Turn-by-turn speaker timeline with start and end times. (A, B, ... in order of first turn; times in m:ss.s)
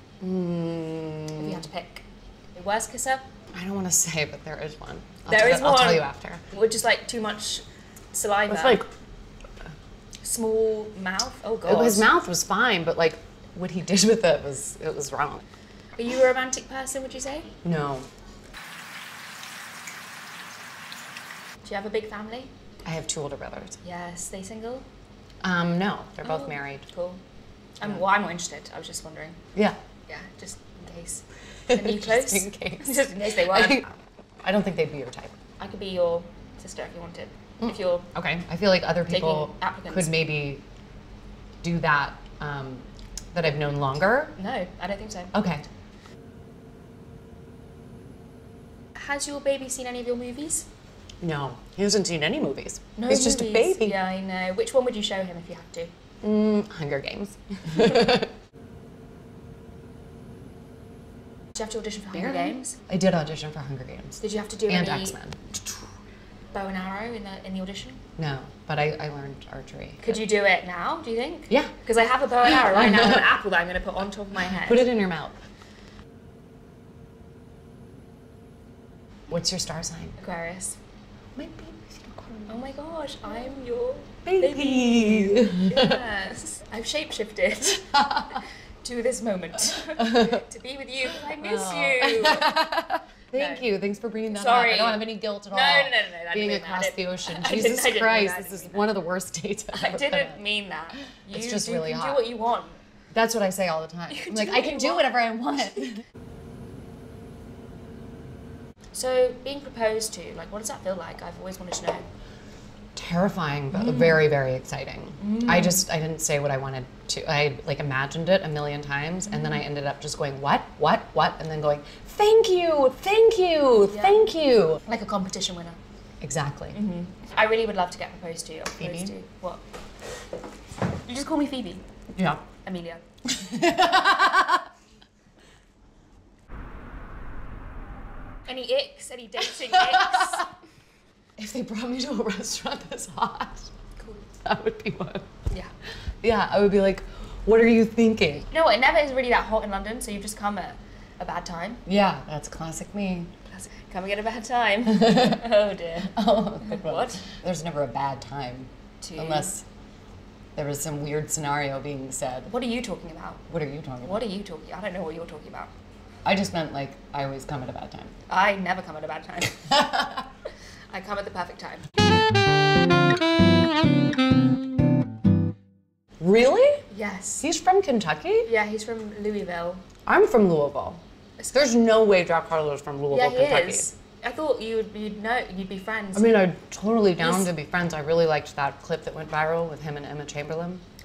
0:00.2-0:01.6 A
0:01.4-0:03.3 B
0:03.5-0:06.4 A
0:05.3-0:08.8 B
0:08.5-0:08.9 A
0:10.2-0:12.1 B
0:11.6-0:15.4 A
0:16.0-0:17.6 B
0:17.6-0:18.1 A
0:21.6-0:22.5 B
0:22.8-0:23.8 A
0:23.8-0:24.9 B
0:25.4-0:26.8 A
0:26.2-0:27.2 B
0:27.8-0:29.4 B
0:30.1-0:33.9 B
0:31.7-0:33.9 A
0:34.4-0:35.3 A
0:35.6-0:38.1 B
0:37.6-0:40.6 A
0:39.0-0:40.3 B
0:41.6-0:44.3 A
0:44.4-0:45.3 B
0:45.3-0:45.6 A
0:49.0-0:50.7 B
0:51.2-0:54.0 A
0:53.0-0:55.9 B
0:56.2-0:58.3 A
1:01.6-1:02.8 B
1:02.1-1:05.4 A
1:04.2-1:05.2 B
1:06.5-1:08.0 B
1:08.2-1:10.2 A
1:10.0-1:14.9 B
1:12.4-1:13.3 A
1:14.5-1:15.3 A
1:19.3-1:20.2 A
1:20.2-1:20.8 B
1:21.4-1:22.7 A
1:22.5-1:32.6 B
1:24.2-1:26.0 A
1:27.9-1:28.4 A
1:30.0-1:30.4 A
1:31.3-1:40.4 A
1:33.3-1:33.7 B
1:34.3-1:38.9 B
1:39.7-1:42.8 B
1:41.3-1:42.3 A
1:43.1-1:46.0 A
1:44.1-1:45.2 B
1:48.9-1:52.1 B
1:53.0-2:04.8 A
1:53.7-1:54.2 B
1:55.2-1:55.8 B
1:59.3-1:59.6 B
2:03.8-2:04.3 B
2:04.8-2:05.8 B
2:06.2-2:06.8 A
2:06.7-2:09.6 B
2:08.8-2:09.1 A
2:11.1-2:11.8 B
2:12.2-2:12.4 A
2:12.6-2:13.0 B
2:13.3-2:14.6 A
2:18.5-2:20.5 B
2:19.7-2:20.5 A
2:21.4-2:23.7 A
2:24.0-2:24.3 B
2:24.4-2:25.3 A
2:26.2-2:28.5 A
2:28.5-2:31.8 B
2:31.9-2:33.3 A
2:33.5-2:37.2 B
2:34.9-2:35.4 A
2:36.2-2:39.6 A
2:39.0-2:39.6 B
2:40.6-2:42.5 A
2:42.5-2:43.4 B
2:43.5-2:44.3 A
2:44.0-2:45.7 B
2:46.2-2:48.1 A
2:48.3-2:49.8 B
2:50.9-2:51.9 B
2:56.2-2:56.8 A
2:56.9-2:57.4 B
2:57.4-2:58.5 A
2:58.5-2:59.8 B
3:00.1-3:03.9 A
3:01.4-3:01.7 B
3:03.1-3:06.4 B
3:06.2-3:10.8 A
3:07.2-3:07.5 B